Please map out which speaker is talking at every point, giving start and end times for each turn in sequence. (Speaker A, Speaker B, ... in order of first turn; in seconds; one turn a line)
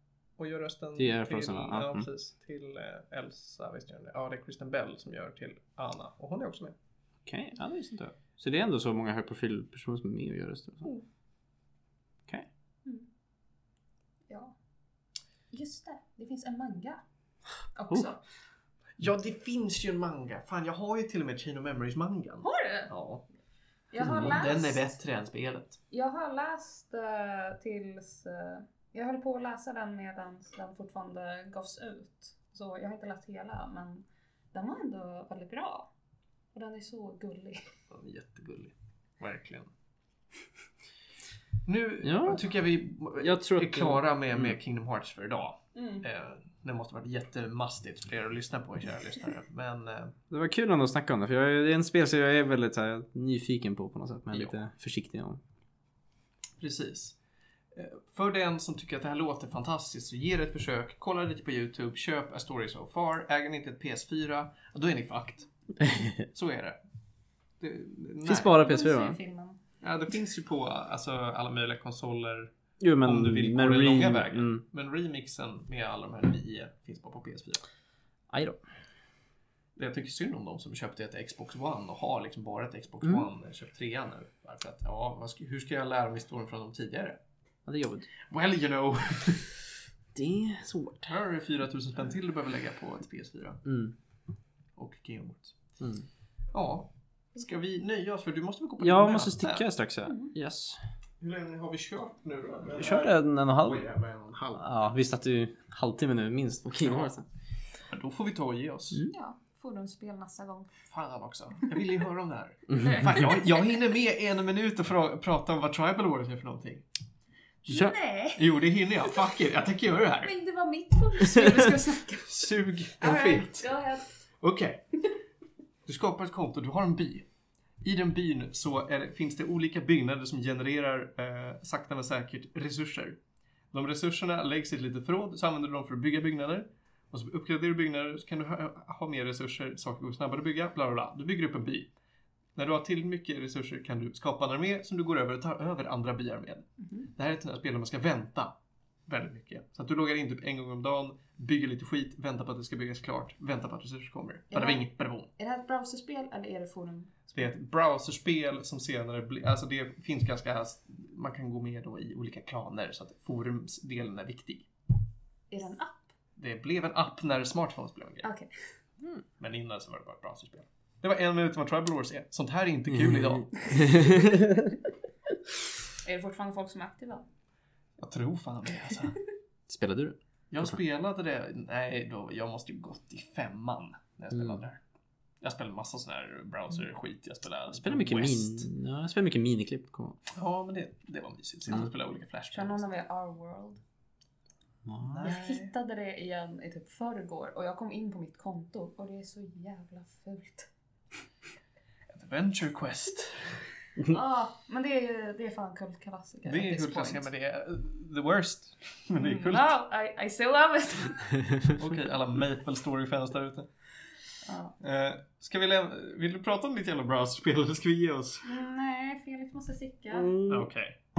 Speaker A: 0.4-6.7
Speaker B: 1.0-2.1
Speaker B: 7.2-10.9
Speaker C: 14.3-14.5
Speaker C: 15.5-17.0
Speaker C: 17.7-18.2
Speaker A: 19.0-23.2
Speaker C: 22.4-22.9
Speaker C: 23.9-24.9
Speaker B: 24.0-24.5
Speaker A: 24.0-25.8
Speaker C: 25.9-35.9
Speaker C: 36.5-37.6
Speaker A: 37.9-39.7
Speaker A: 41.6-50.2
Speaker B: 42.0-42.5
Speaker B: 43.2-44.5
Speaker C: 45.7-46.0
Speaker B: 50.3-55.4
Speaker A: 56.6-57.2
Speaker A: 57.7-65.5
Speaker B: 65.8-66.1
Speaker A: 66.3-66.8
Speaker A: 67.6-68.5
Speaker B: 68.2-69.2
Speaker C: 68.5-69.6
Speaker A: 69.8-77.6
Speaker B: 72.8-74.6
Speaker B: 78.3-78.6
Speaker A: 79.8-87.2
Speaker B: 87.7-88.1
Speaker A: 88.3-89.6
Speaker B: 90.1-91.1
Speaker A: 91.1-93.6
Speaker B: 93.7-93.9
Speaker A: 94.8-95.6
Speaker B: 95.8-96.1
Speaker A: 96.5-99.7
Speaker B: 98.8-100.8
Speaker C: 100.0-100.3
Speaker A: 101.2-104.6
Speaker B: 102.8-103.8
Speaker B: 104.6-107.2
Speaker A: 106.8-107.1
Speaker A: 107.9-109.0
Speaker C: 109.0-110.7
Speaker A: 110.9-116.8
Speaker B: 112.8-113.1
Speaker C: 112.8-113.4
Speaker C: 117.7-118.5
Speaker B: 117.7-117.9
Speaker A: 118.3-120.3
Speaker C: 120.2-124.2
Speaker A: 122.2-123.7
Speaker A: 124.4-125.0
Speaker A: 125.8-127.2
Speaker A: 127.8-133.2
Speaker A: 133.7-141.9
Speaker A: 142.6-148.5
Speaker C: 146.8-147.1
Speaker A: 149.1-155.3
Speaker C: 154.5-157.4
Speaker A: 157.3-164.7
Speaker C: 165.5-166.1
Speaker A: 166.4-168.3
Speaker C: 168.2-168.5
Speaker A: 169.4-173.8
Speaker B: 173.1-174.7
Speaker C: 176.0-177.2
Speaker A: 178.0-179.2
Speaker B: 179.7-180.7
Speaker A: 180.5-184.8
Speaker A: 185.4-188.7
Speaker B: 187.8-190.2
Speaker A: 190.3-192.8
Speaker C: 192.5-193.8
Speaker B: 194.9-195.2
Speaker A: 195.0-195.7
Speaker C: 195.2-200.7
Speaker A: 202.1-203.7
Speaker C: 204.0-207.2
Speaker A: 206.5-209.7
Speaker C: 209.2-211.3
Speaker A: 211.7-213.7
Speaker C: 214.4-214.7
Speaker A: 214.8-218.4
Speaker C: 218.4-220.4
Speaker B: 220.1-220.7
Speaker A: 220.5-220.9